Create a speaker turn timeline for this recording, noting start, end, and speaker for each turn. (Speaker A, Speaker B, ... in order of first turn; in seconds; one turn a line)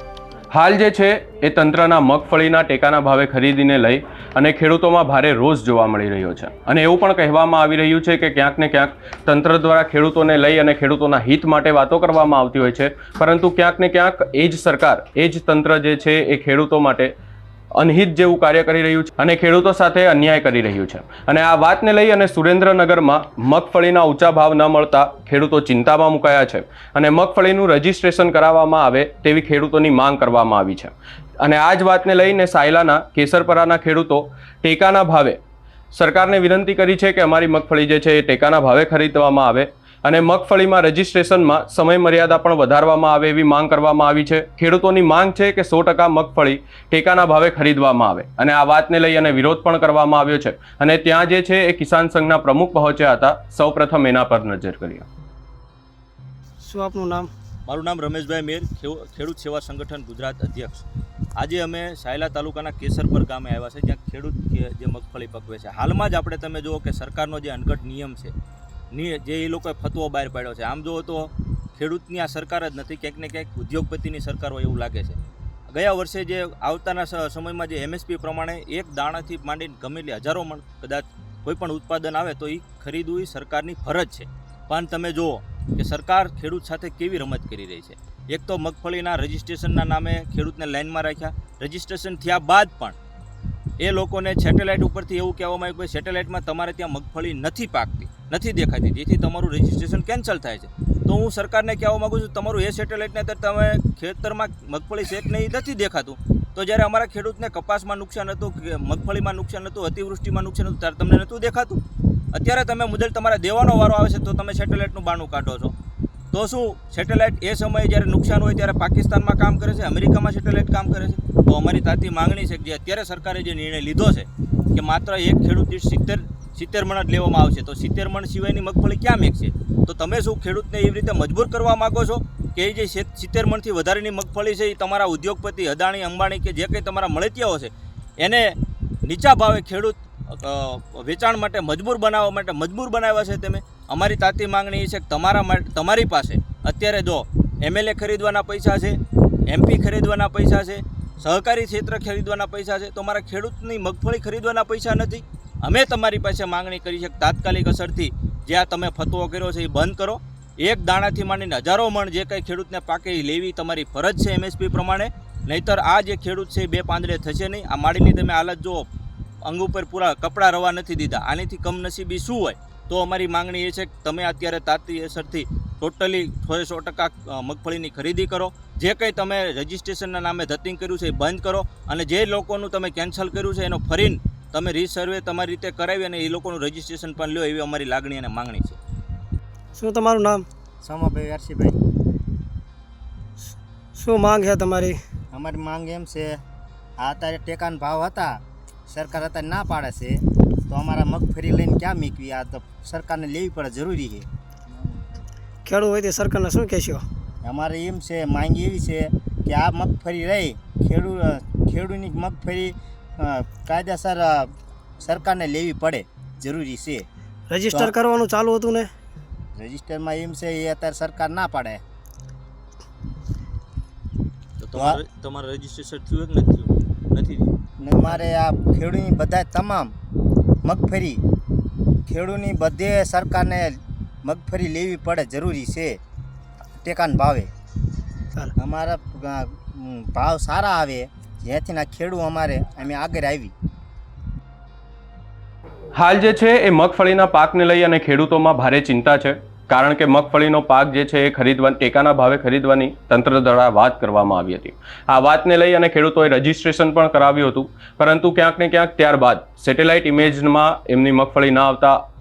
Speaker A: 0.5-17.1
Speaker A: 17.8-35.4
Speaker A: 35.9-55.1
Speaker B: 56.6-57.3
Speaker C: 57.7-68.3
Speaker C: 68.9-93.0
Speaker C: 93.8-111.8
Speaker C: 112.3-115.8
Speaker C: 116.3-168.9
Speaker C: 169.4-188.8
Speaker B: 189.8-190.5
Speaker D: 190.8-191.8
Speaker B: 193.9-195.0
Speaker D: 195.3-196.4
Speaker D: 197.0-204.3
Speaker B: 205.7-207.0
Speaker D: 207.4-217.1
Speaker B: 217.5-218.9
Speaker D: 219.6-221.8
Speaker C: 224.6-227.5
Speaker D: 224.7-225.0
Speaker D: 227.8-229.9
Speaker D: 230.6-231.2
Speaker D: 232.1-236.0
Speaker D: 236.8-237.5
Speaker D: 238.6-243.5
Speaker A: 245.9-262.0